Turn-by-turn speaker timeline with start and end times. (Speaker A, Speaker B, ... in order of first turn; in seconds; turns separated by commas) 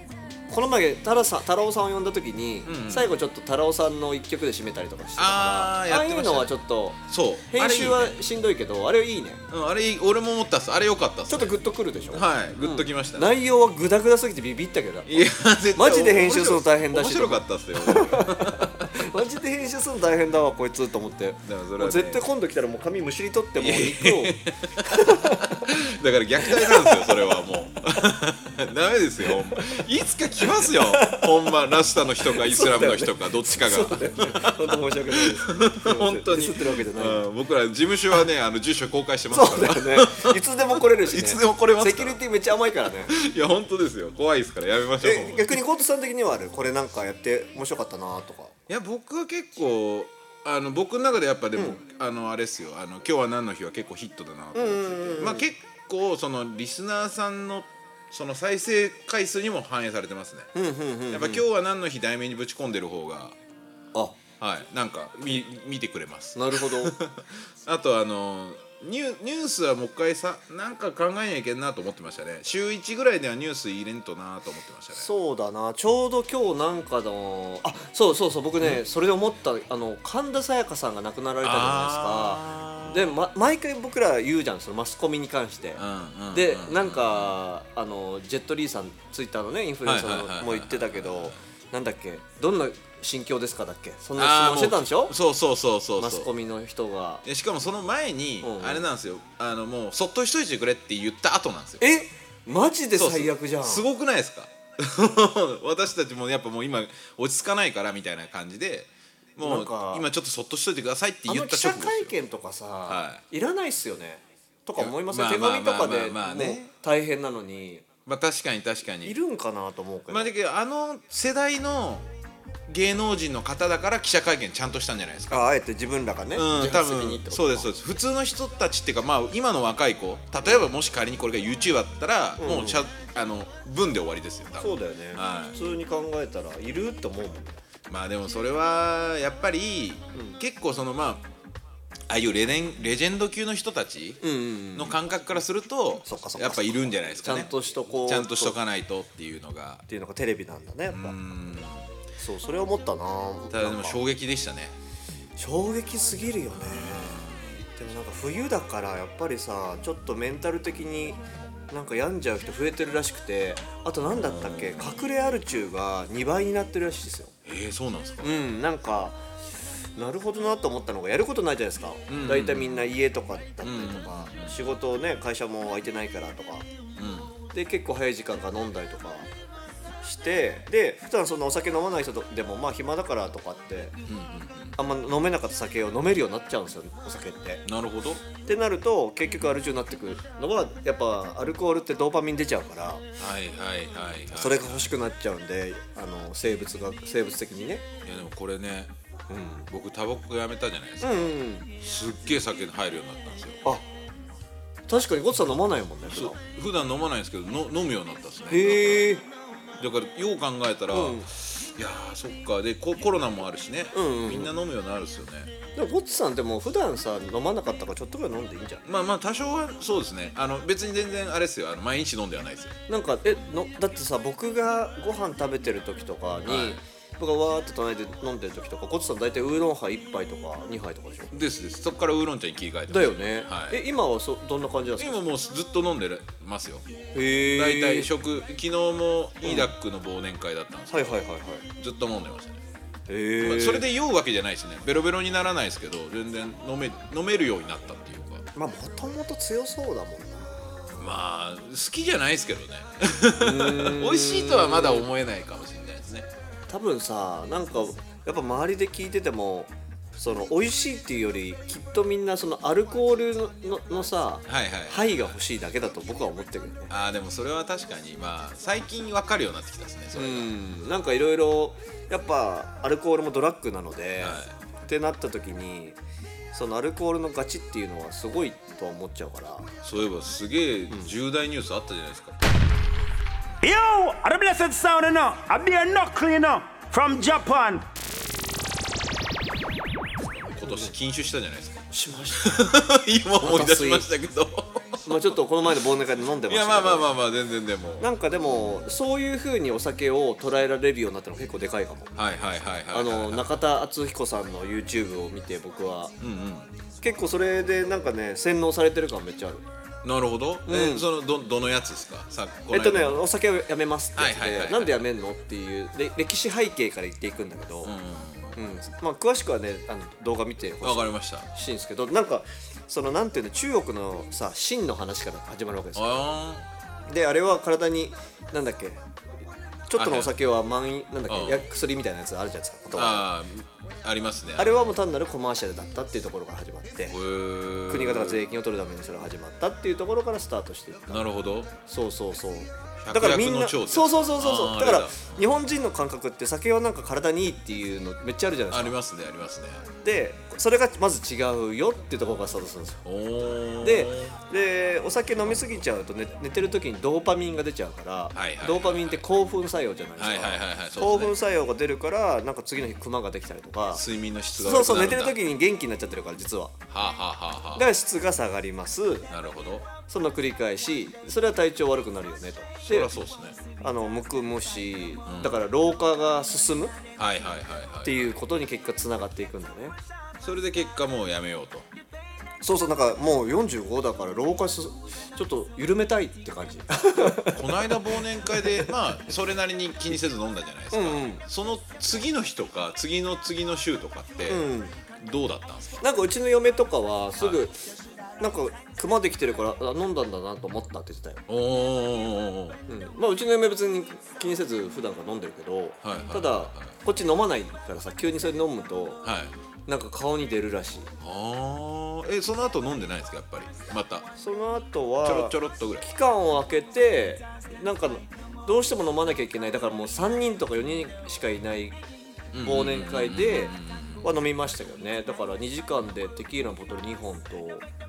Speaker A: 0.5-9.4, Speaker B: 2.6-3.1, Speaker B: 5.2-8.1, Speaker B: 9.5-13.3, Speaker A: 11.3-15.2, Speaker B: 15.1-19.1, Speaker A: 15.8-25.7, Speaker B: 21.4-22.2, Speaker B: 23.6-42.2, Speaker A: 26.4-27.1, Speaker A: 30.6-31.3, Speaker A: 32.2-37.2, Speaker A: 39.3-43.1, Speaker B: 43.1-45.6, Speaker A: 45.0-48.5, Speaker B: 48.7-60.5, Speaker A: 54.5-55.5, Speaker A: 60.5-61.4, Speaker B: 61.1-63.4, Speaker B: 64.4-75.1, Speaker A: 66.3-66.9, Speaker A: 74.9-95.1, Speaker B: 81.4-83.2, Speaker B: 85.8-87.4, Speaker B: 89.8-91.4, Speaker B: 94.2-96.3, Speaker A: 96.0-97.2, Speaker B: 97.2-101.8, Speaker A: 98.4-98.9, Speaker A: 101.8-103.9, Speaker B: 103.0-112.1, Speaker A: 109.4-110.0, Speaker A: 111.3-117.8, Speaker B: 112.9-113.2, Speaker B: 114.8-116.7, Speaker B: 118.0-119.2, Speaker A: 119.0-120.3, Speaker B: 120.1-122.1, Speaker B: 122.7-125.5, Speaker A: 125.3-127.7, Speaker B: 126.3-135.6, Speaker A: 132.4-132.9, Speaker A: 134.6-137.6, Speaker B: 137.9-141.2, Speaker B: 142.1-144.2, Speaker A: 144.2-145.0, Speaker B: 144.7-149.8, Speaker A: 146.1-148.6, Speaker A: 149.9-151.2, Speaker B: 150.9-151.9, Speaker A: 152.2-154.0, Speaker B: 153.5-154.8, Speaker A: 155.4-167.3, Speaker B: 156.5-157.6, Speaker B: 164.1-165.0, Speaker B: 167.4-168.4, Speaker A: 168.2-169.2, Speaker A: 169.9-176.7, Speaker B: 172.1-172.9, Speaker B: 173.6-174.7, Speaker B: 177.0-177.3, Speaker A: 177.5-179.3, Speaker A: 180.0-184.0, Speaker B: 184.1-184.8, Speaker A: 184.8-187.6, Speaker B: 187.7-188.2, Speaker A: 188.4-193.0, Speaker B: 193.2-194.9, Speaker A: 194.3-197.8, Speaker B: 198.0-198.9, Speaker A: 199.3-199.7, Speaker B: 199.7-201.3, Speaker A: 201.0-201.7, Speaker B: 201.8-203.7, Speaker A: 204.9-206.4, Speaker B: 206.1-209.2, Speaker A: 208.5-209.2, Speaker B: 209.8-215.5, Speaker A: 210.9-211.3, Speaker A: 213.9-214.5, Speaker A: 215.7-218.8, Speaker B: 218.8-222.8, Speaker A: 222.9-231.3, Speaker B: 226.4-226.8, Speaker B: 231.3-233.8, Speaker A: 232.9-235.2, Speaker B: 235.0-236.8, Speaker A: 237.1-238.1, Speaker B: 237.4-242.6, Speaker A: 239.4-239.7, Speaker A: 240.9-241.7, Speaker A: 243.1-243.8, Speaker B: 243.4-248.4, Speaker A: 248.5-250.8, Speaker B: 251.0-256.3, Speaker A: 253.4-255.1, Speaker A: 256.7-266.9, Speaker B: 264.5-265.4, Speaker B: 266.9-270.5, Speaker A: 270.1-276.0, Speaker B: 274.2-274.5, Speaker A: 276.5-279.7, Speaker B: 279.8-282.4, Speaker C: 283.6-287.9, Speaker B: 290.3-295.3, Speaker A: 290.6-290.9, Speaker A: 291.9-292.6, Speaker A: 293.4-294.1, Speaker A: 295.0-297.1, Speaker B: 296.4-298.7, Speaker A: 298.0-302.1, Speaker B: 302.1-303.5, Speaker A: 302.9-306.1, Speaker B: 306.2-306.7, Speaker A: 307.0-309.6, Speaker B: 310.0-313.3, Speaker A: 310.7-311.1, Speaker A: 312.7-317.9, Speaker B: 314.1-315.0, Speaker B: 317.8-318.6, Speaker A: 318.6-326.2, Speaker B: 320.8-321.5, Speaker B: 325.9-326.7, Speaker A: 327.1-329.0, Speaker A: 329.9-333.3, Speaker B: 329.9-330.3, Speaker B: 331.3-331.7, Speaker B: 332.9-334.9, Speaker A: 334.6-337.2, Speaker B: 337.1-338.4, Speaker A: 337.9-341.2, Speaker B: 341.1-341.7, Speaker A: 341.9-348.9, Speaker B: 343.0-345.4, Speaker B: 348.7-349.8, Speaker A: 350.0-353.0, Speaker B: 353.0-354.4, Speaker A: 353.8-364.0, Speaker B: 358.3-359.2, Speaker B: 360.2-361.4, Speaker B: 363.9-365.4, Speaker A: 364.5-366.8, Speaker B: 366.9-367.9, Speaker A: 367.7-369.3, Speaker B: 369.3-369.9, Speaker A: 370.1-373.1, Speaker B: 372.8-373.6, Speaker A: 373.8-376.9, Speaker B: 375.2-375.6, Speaker B: 377.2-378.3, Speaker A: 378.0-380.0, Speaker B: 380.4-381.9, Speaker A: 382.6-388.9, Speaker B: 387.3-394.7, Speaker A: 390.9-391.4, Speaker A: 394.5-394.9, Speaker B: 395.2-396.0, Speaker A: 396.0-397.8, Speaker B: 397.4-397.7, Speaker A: 398.4-401.4, Speaker B: 401.5-402.8, Speaker A: 402.9-409.2, Speaker B: 406.0-406.9, Speaker B: 409.2-409.5, Speaker A: 409.9-411.1, Speaker B: 411.2-414.3, Speaker A: 414.4-422.0, Speaker B: 415.2-416.0, Speaker B: 422.5-424.3, Speaker A: 422.6-427.8